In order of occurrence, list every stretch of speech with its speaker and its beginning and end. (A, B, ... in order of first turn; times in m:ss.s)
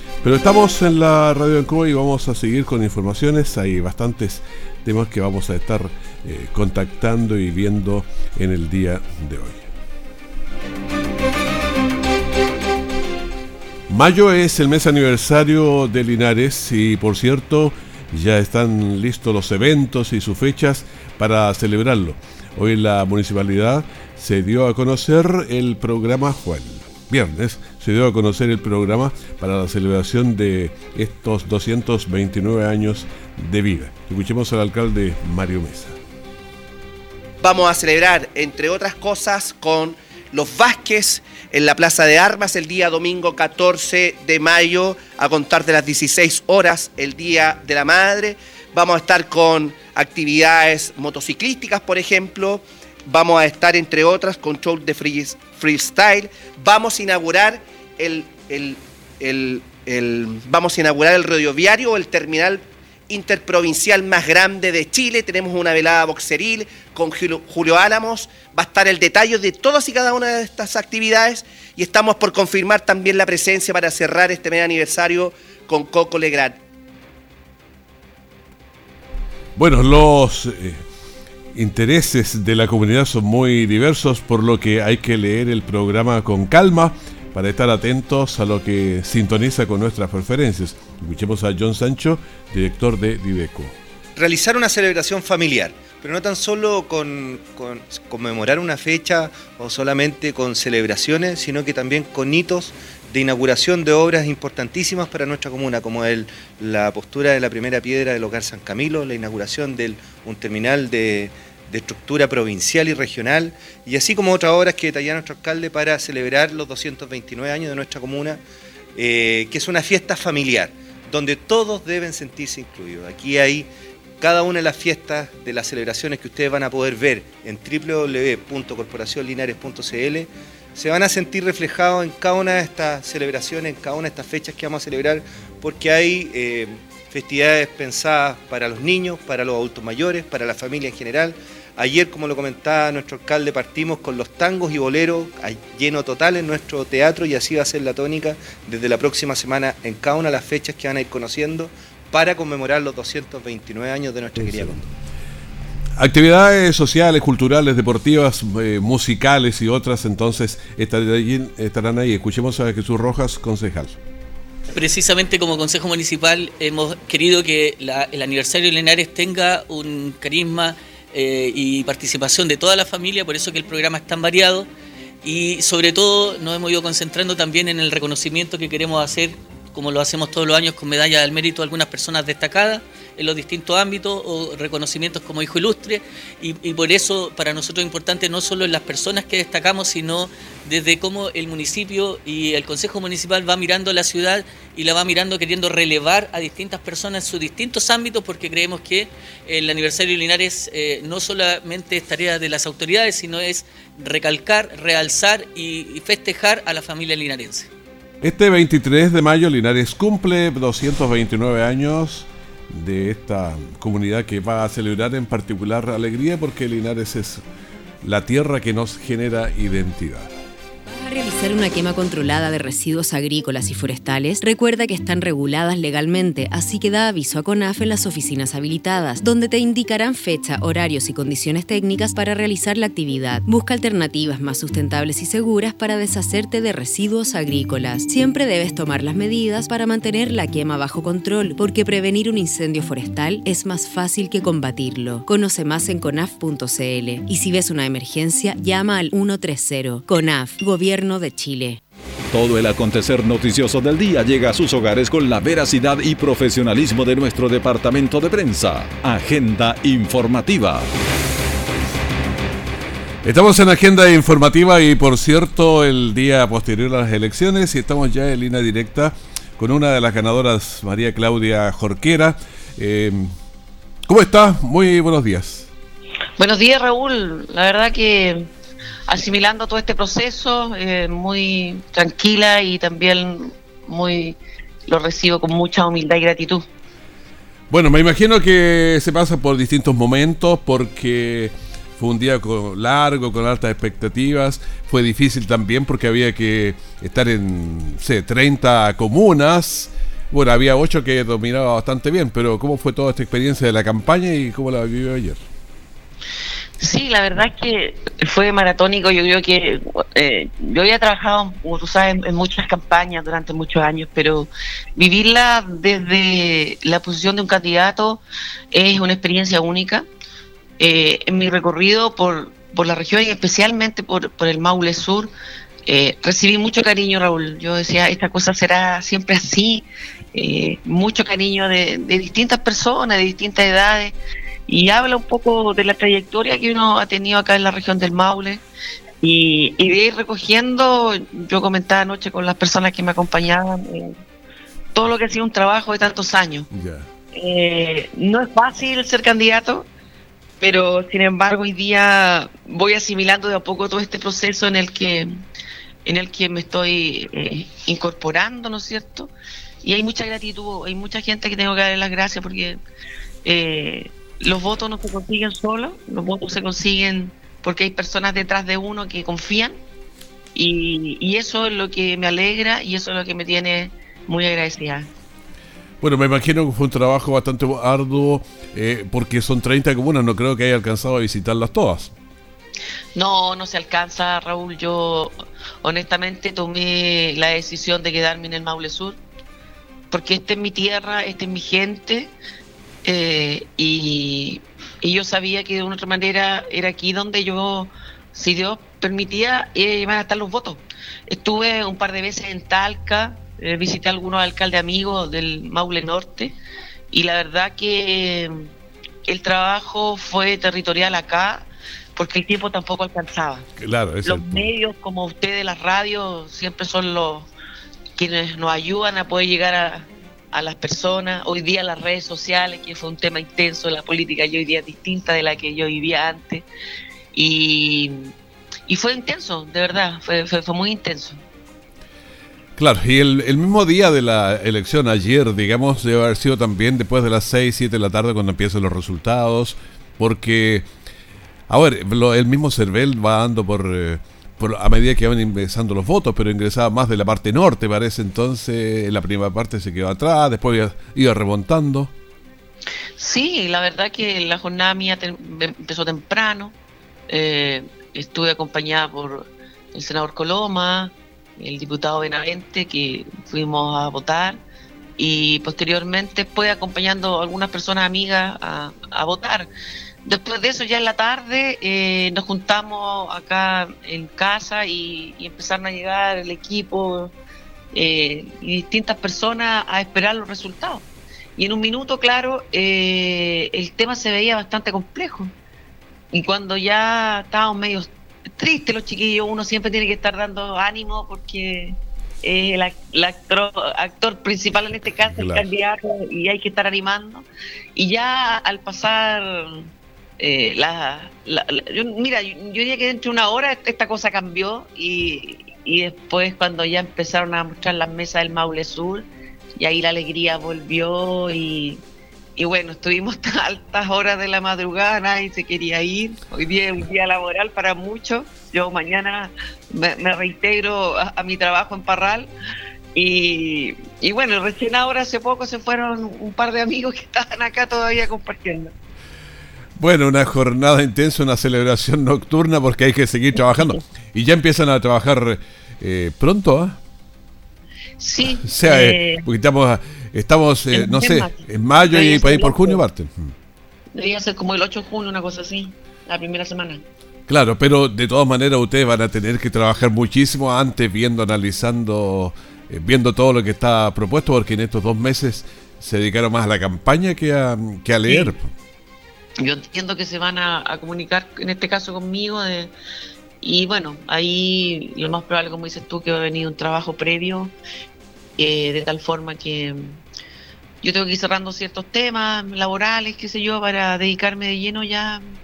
0:00.2-0:09.7 A
0:13.9-0:36.0 A
0:37.4-1:16.6 B
1:19.6-1:20.8 A
1:21.5-1:33.8 A
1:34.2-1:58.4 C
1:58.9-2:34.9 C
2:36.0-2:44.0 A
2:44.7-2:54.7 D
2:55.2-3:27.7 D
3:28.2-3:37.4 A
3:38.0-3:40.3 A
3:40.8-4:11.8 E
4:12.3-4:20.9 F
4:23.2-4:33.3 A
4:34.1-4:35.7 A
4:36.4-4:38.5 G
4:39.1-4:46.6 G
4:47.7-5:05.4 A
5:06.8-5:20.0 G
5:20.8-5:25.3 G
5:25.9-5:34.2 G
5:34.7-5:38.6 G
5:39.2-5:44.2 G
5:44.9-5:46.7 G
5:46.7-5:47.1 A
5:47.3-5:49.9 G
5:50.6-5:55.3 G
5:56.0-5:59.3 G
5:59.8-6:02.8 G
6:03.4-6:09.8 G
6:10.5-6:15.1 G
6:16.0-6:22.1 A
6:23.1-6:29.2 G
6:30.1-6:32.3 G
6:33.0-6:46.6 G
6:47.1-6:48.7 G
6:49.3-6:53.7 G
6:53.8-6:54.7 A
6:54.2-6:57.5 G
6:58.2-7:06.6 G
7:07.3-7:08.3 G
7:08.9-7:11.4 G
7:12.8-7:20.9 A
7:21.7-7:32.1 A
7:33.2-7:36.8 G
7:37.3-7:44.6 G
7:45.2-7:49.7 G
7:50.2-7:57.3 G
7:57.9-8:01.0 G
8:01.6-8:05.5 G
8:06.3-8:32.0 G
8:15.3-8:15.6 A
8:32.6-8:42.5 G
8:43.1-8:48.9 G
8:50.0-8:57.0 A
8:58.2-8:59.4 G
8:58.6-9:03.5 A
9:00.9-9:03.0 G
9:04.1-9:07.0 G
9:07.5-9:18.7 A
9:18.3-9:18.5 G
9:19.6-9:22.9 G
9:23.6-9:27.7 G
9:28.6-9:30.2 G
9:31.0-9:35.4 G